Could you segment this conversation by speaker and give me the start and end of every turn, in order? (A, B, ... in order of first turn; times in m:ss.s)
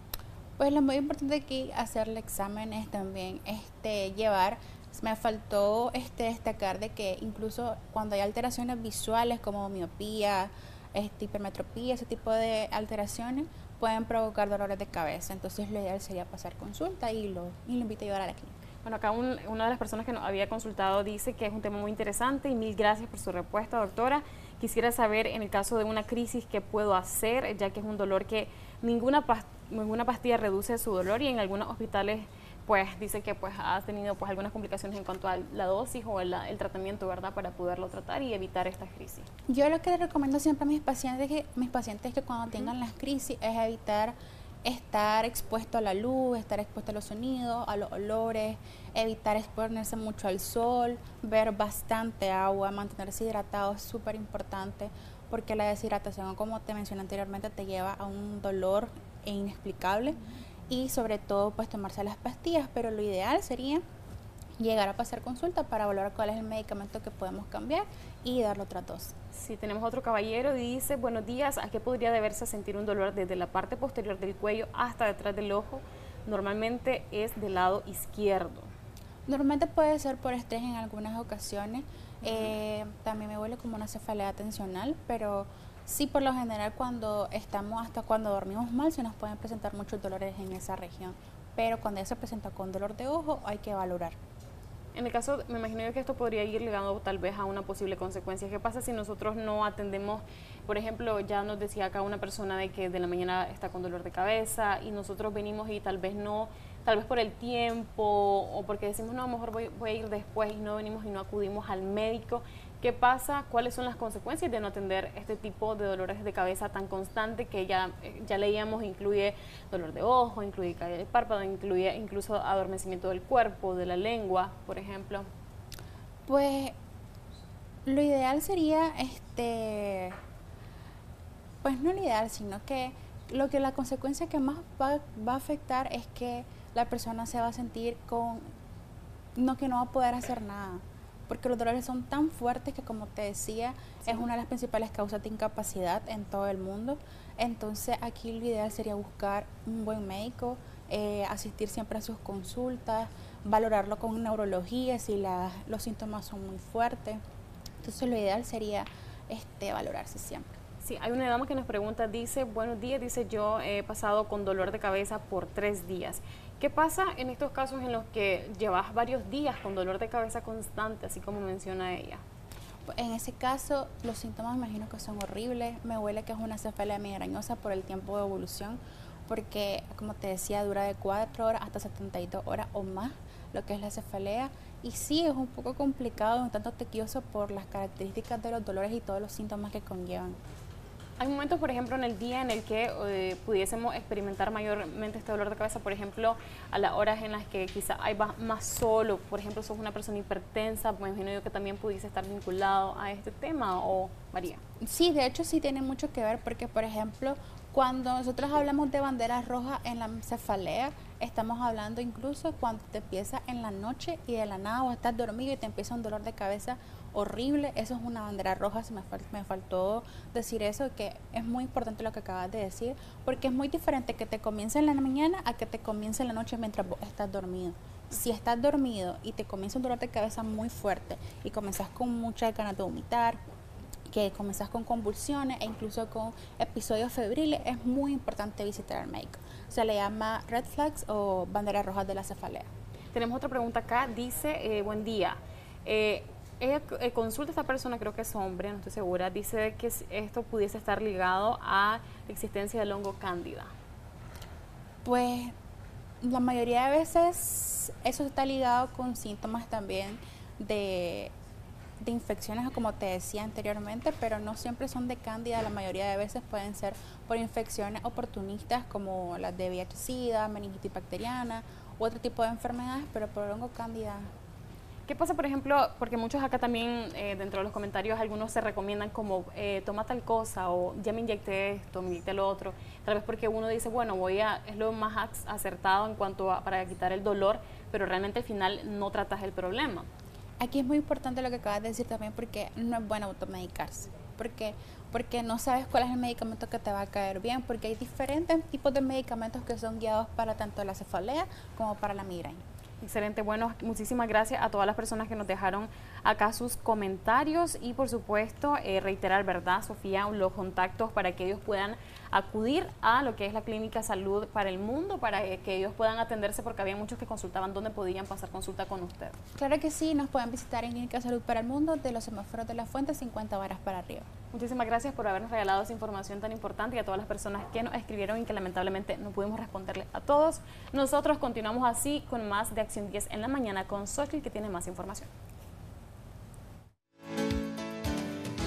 0:00.6-0:18.5 A
0:18.8-0:39.3 B
0:39.5-1:00.2 A
1:00.7-1:03.8 A
1:04.6-1:09.1 A
1:09.3-1:18.7 B
1:19.3-1:34.2 A
1:22.2-1:22.5 B
1:35.0-2:05.3 B
2:06.3-2:06.8 A
2:07.9-2:10.2 A
2:11.6-2:18.5 A
2:19.4-2:37.2 A
2:37.8-2:40.5 A
2:40.8-2:52.2 B
2:52.9-3:10.4 A
3:11.2-3:24.6 B
3:24.8-3:53.4 A
3:54.1-4:02.7 A
4:03.1-4:13.7 B
4:15.0-4:15.5 A
4:16.2-4:21.3 A
4:22.0-4:34.3 A
4:35.1-4:50.1 B
4:50.6-5:02.6 A
5:03.0-5:19.4 B
5:19.6-5:24.3 A
5:24.5-5:35.3 B